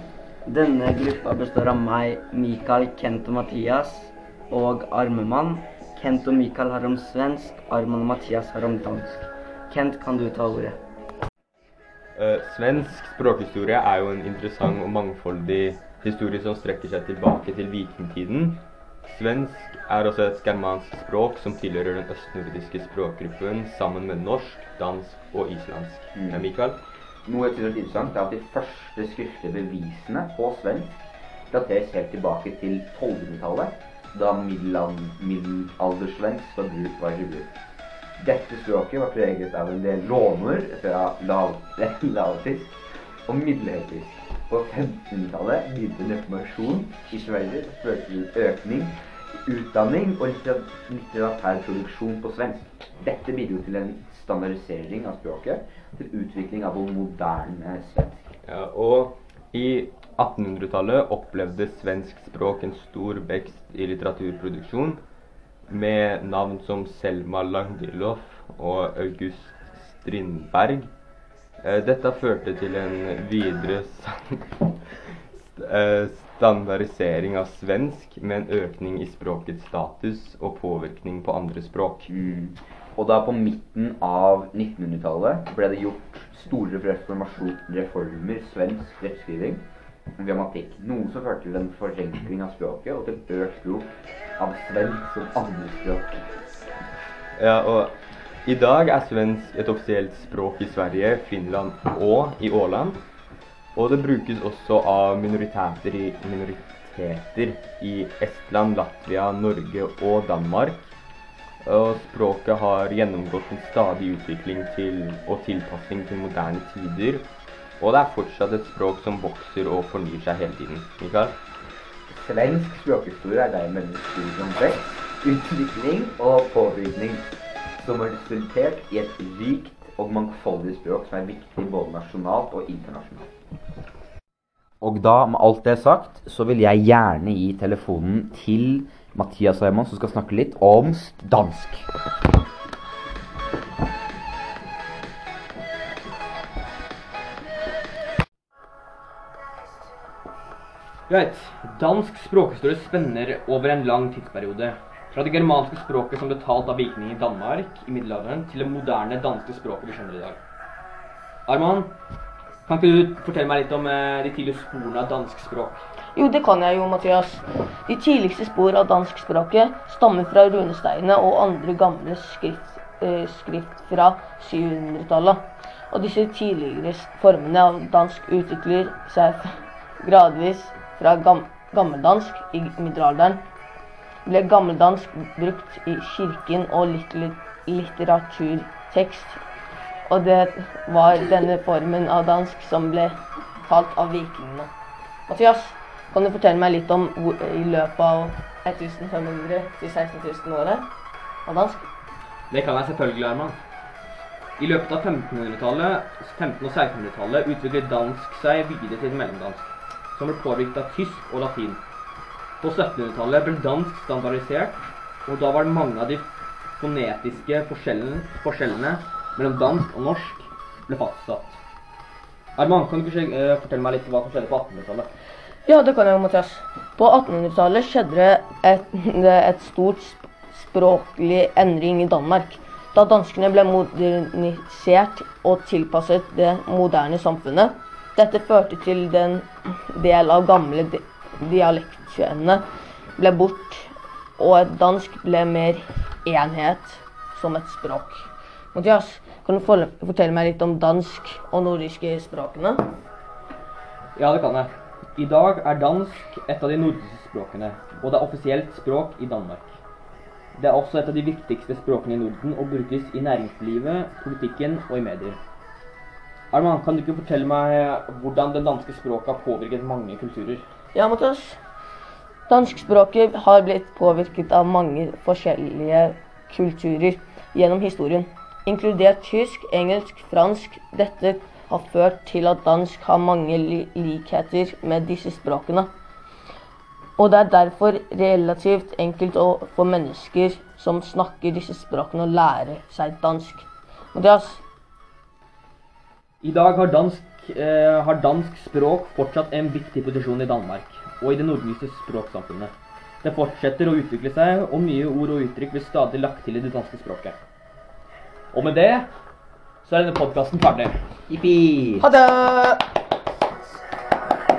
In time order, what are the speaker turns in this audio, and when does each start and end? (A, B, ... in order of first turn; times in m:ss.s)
0:00.4-0:10.8 A
0:12.2-0:26.8 B
0:26.1-0:26.5 C
0:27.2-0:37.5 C
0:38.2-0:42.8 C
0:43.3-0:58.2 C
0:58.4-1:05.0 B
1:05.7-1:10.9 B
1:11.6-1:22.1 B
1:22.1-1:29.6 C
1:30.2-1:36.2 C
1:37.4-1:43.0 B
1:43.8-1:50.9 B
1:51.6-1:57.3 B
1:57.8-2:01.4 B
2:02.1-2:13.2 C
2:14.8-2:21.9 C
2:31.1-2:40.4 D
2:41.5-2:41.9 D
2:42.6-2:45.8 D
2:46.1-3:03.4 E
3:04.2-3:09.4 E
3:10.1-3:14.7 E
3:15.3-3:20.8 E
3:21.4-3:21.9 E
3:22.5-3:23.6 D
3:24.6-3:31.8 D
3:32.6-3:36.3 D
3:36.8-3:41.6 D
3:42.6-3:45.1 D
3:45.6-4:02.6 E
4:03.2-4:12.8 E
4:14.2-4:19.7 D
4:20.5-4:25.4 D
4:26.5-4:30.6 D
4:30.9-4:31.6 E
4:32.5-4:45.9 E
4:47.2-4:54.6 E
4:56.4-5:07.4 D
5:08.5-5:09.1 D
5:09.8-5:10.9 D
5:11.3-5:12.1 C
5:12.0-5:12.8 E